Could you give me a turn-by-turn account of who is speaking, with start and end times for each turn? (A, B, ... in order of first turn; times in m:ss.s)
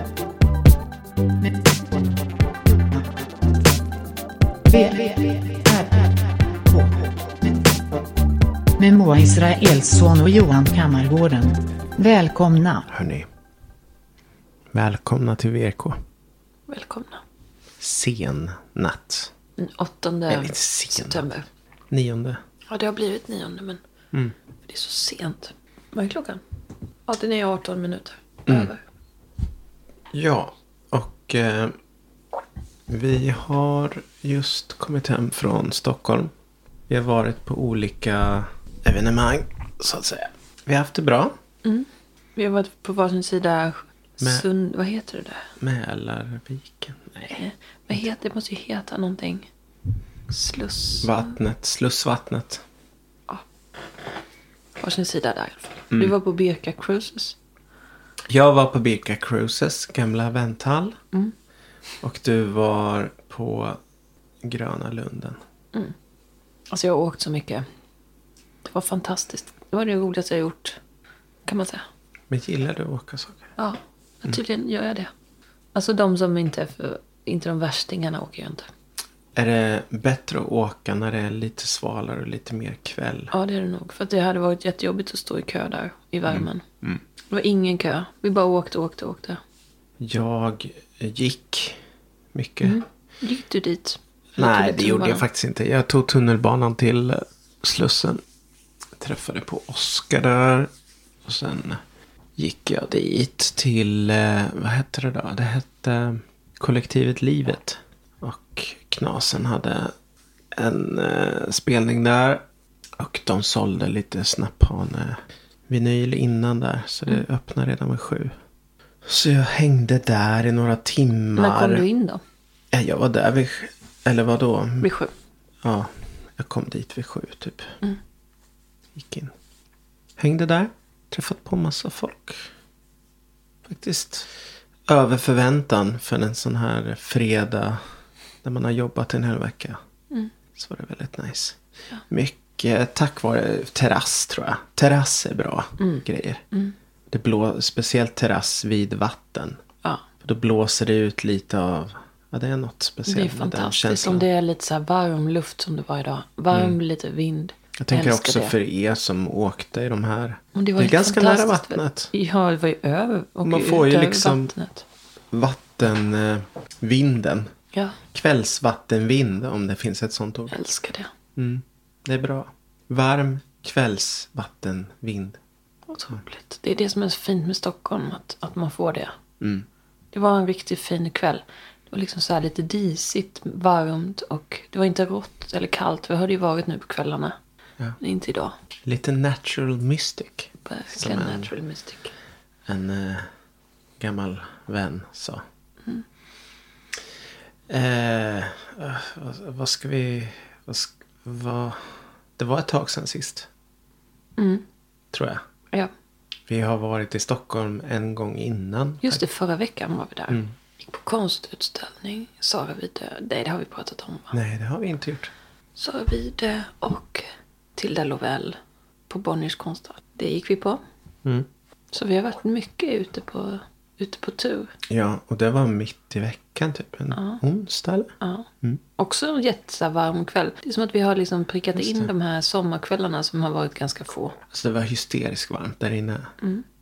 0:04.7-0:07.1 A
0:08.8-0:12.9 A
0:12.9-0:13.3 B
0:14.7-0:16.0 B
0:16.7-0:17.2 C
0:17.8-0:19.3 B
0:19.6-0:21.5 C
0:20.3-0:21.2 B
0:21.9-0:22.4 B
0:22.7-0:23.8 C
0:24.7-0:26.4 C
0:27.1-0:28.8 C
0:28.5-0:28.7 B
0:30.1-0:31.7 B
0:32.9-0:36.3 B
0:36.9-0:41.4 B
0:41.6-0:45.5 C
0:45.6-0:47.4 B
0:47.3-0:49.5 C
0:50.3-0:51.1 C
0:51.0-0:52.6 B
0:54.8-0:57.4 C
0:58.3-1:01.0 B
1:02.0-1:03.8 B
1:04.4-1:05.4 B
1:06.7-1:07.6 C
1:08.6-1:10.8 C
1:11.4-1:11.8 C
1:12.3-1:13.5 B
1:13.6-1:15.1 C
1:15.7-1:18.7 C
1:19.3-1:23.3 B
1:23.3-1:26.6 C
1:26.3-1:27.0 B
1:27.3-1:29.4 C
1:30.0-1:31.8 B
1:32.3-1:32.8 B
1:32.6-1:35.2 C
1:34.4-1:38.2 B
1:39.0-1:40.7 B
1:41.2-1:41.8 B
1:42.4-1:49.9 B
1:50.5-1:52.4 B
1:53.0-1:58.3 B
1:59.0-2:01.8 B
2:01.3-2:02.2 C
2:02.7-2:04.9 B
2:04.8-2:05.1 C
2:05.6-2:07.8 B
2:08.9-2:09.3 B
2:10.2-2:12.5 B
2:13.6-2:14.3 B
2:14.9-2:17.8 B
2:18.4-2:19.8 B
2:20.5-2:21.6 B
2:22.1-2:26.4 B
2:25.8-2:26.7 C
2:27.1-2:29.6 B
2:30.2-2:34.2 B
2:33.0-2:38.5 C
2:36.5-2:36.8 B
2:37.8-2:42.1 B
2:40.5-2:44.8 C
2:43.4-2:44.5 B
2:45.3-2:47.5 B
2:47.7-2:48.0 C
2:48.1-2:50.6 B
2:50.5-2:51.1 C
2:51.4-2:55.4 B
2:55.9-2:59.1 C
2:59.4-2:59.6 B
3:00.1-3:07.4 C
3:08.0-3:08.5 C
3:08.8-3:11.5 B
3:10.6-3:12.1 C
3:12.6-3:13.3 B
3:14.0-3:15.4 B
3:17.7-3:23.5 B
3:24.4-3:24.6 C
3:25.1-3:25.4 B
3:26.5-3:29.2 B
3:29.0-3:34.4 C
3:34.3-3:35.3 B
3:35.8-3:37.2 C
3:37.8-3:38.6 C
3:39.1-3:40.8 C
3:41.9-3:44.7 C
3:44.9-3:48.8 B
3:47.1-3:47.4 C
3:48.2-3:48.5 C
3:49.0-3:54.4 C
3:51.8-3:52.1 B
3:54.5-3:56.3 B